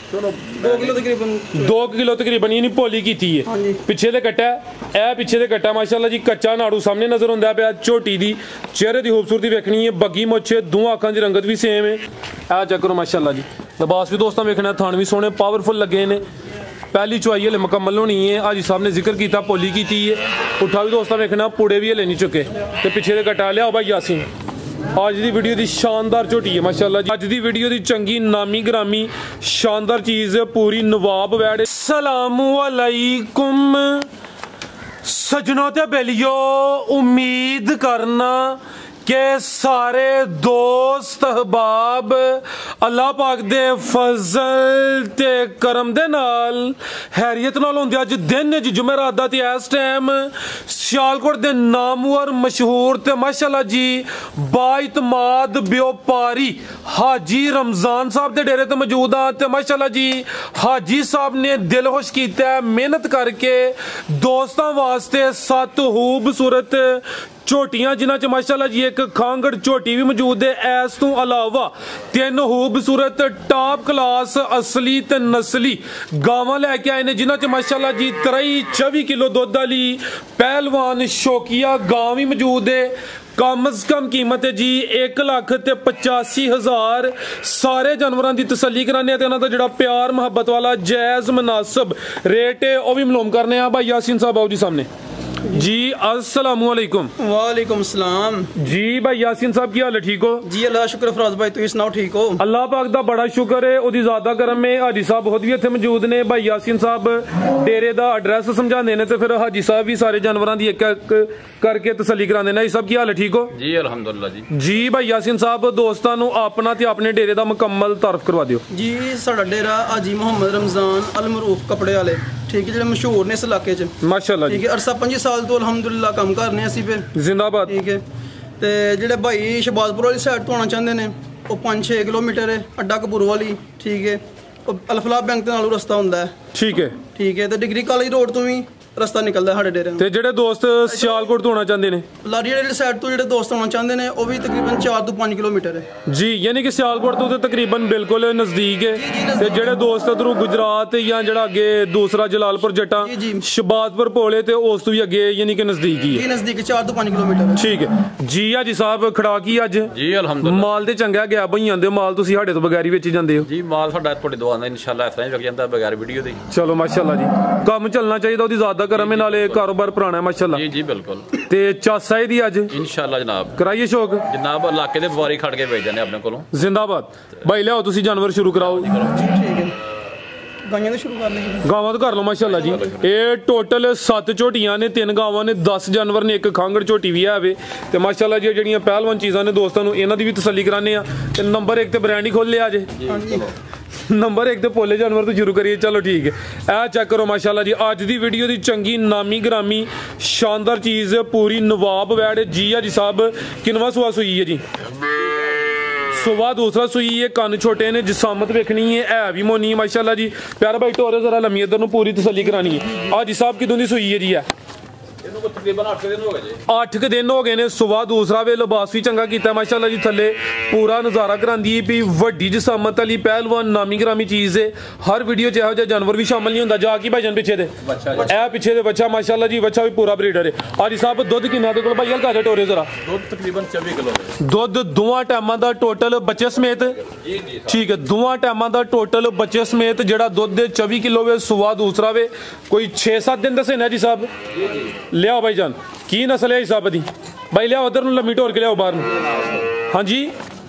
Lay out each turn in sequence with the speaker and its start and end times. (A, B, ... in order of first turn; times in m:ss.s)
0:00.1-0:01.0 A
0:00.6-0:01.8 B
0:01.5-0:16.2 C
0:03.5-0:03.8 B
0:16.9-0:24.3 C
0:24.9-0:34.1 C
0:35.0-1:34.9 C
1:35.5-1:37.1 C
1:37.2-1:38.5 B
1:38.6-1:40.5 C
1:40.4-1:42.4 B
1:42.4-1:53.5 C
1:53.5-1:54.5 A
1:54.5-1:58.6 C
1:58.7-2:04.0 B
2:04.0-2:04.6 C
2:04.5-2:07.1 B
2:07.1-2:07.7 C
2:07.7-2:08.0 B
2:08.6-2:16.3 B
2:16.5-2:17.0 C
2:17.1-2:20.0 B
2:20.0-2:22.0 C
2:20.8-2:21.3 B
2:22.2-2:25.9 B
2:26.1-2:36.2 C
2:28.9-2:29.8 B
2:33.0-2:33.4 B
2:36.1-2:37.6 B
2:37.6-2:43.5 C
2:39.9-2:40.8 A
2:43.4-2:46.4 A
2:46.5-2:50.6 C
2:48.9-2:49.8 A
2:50.5-2:51.3 A
2:51.4-2:52.7 C
2:52.7-2:53.6 A
2:53.6-2:54.3 C
2:54.3-2:56.5 A
2:56.5-2:58.9 C
2:58.6-2:59.3 A
2:59.1-2:59.8 B
3:00.6-3:01.7 B
3:01.6-3:12.9 C
3:02.4-3:03.0 A
3:12.9-3:13.6 A
3:13.0-3:13.5 B
3:14.0-3:24.6 C
3:26.1-3:34.5 C
3:35.2-3:36.6 A
3:36.7-3:52.9 C
3:47.8-3:48.5 A
3:53.0-3:54.4 A
3:54.4-3:57.0 C
3:57.0-3:57.8 A
3:57.7-4:04.3 C
4:04.5-4:05.0 A
4:05.1-4:09.1 C
4:08.8-4:09.7 A
4:09.8-4:10.3 C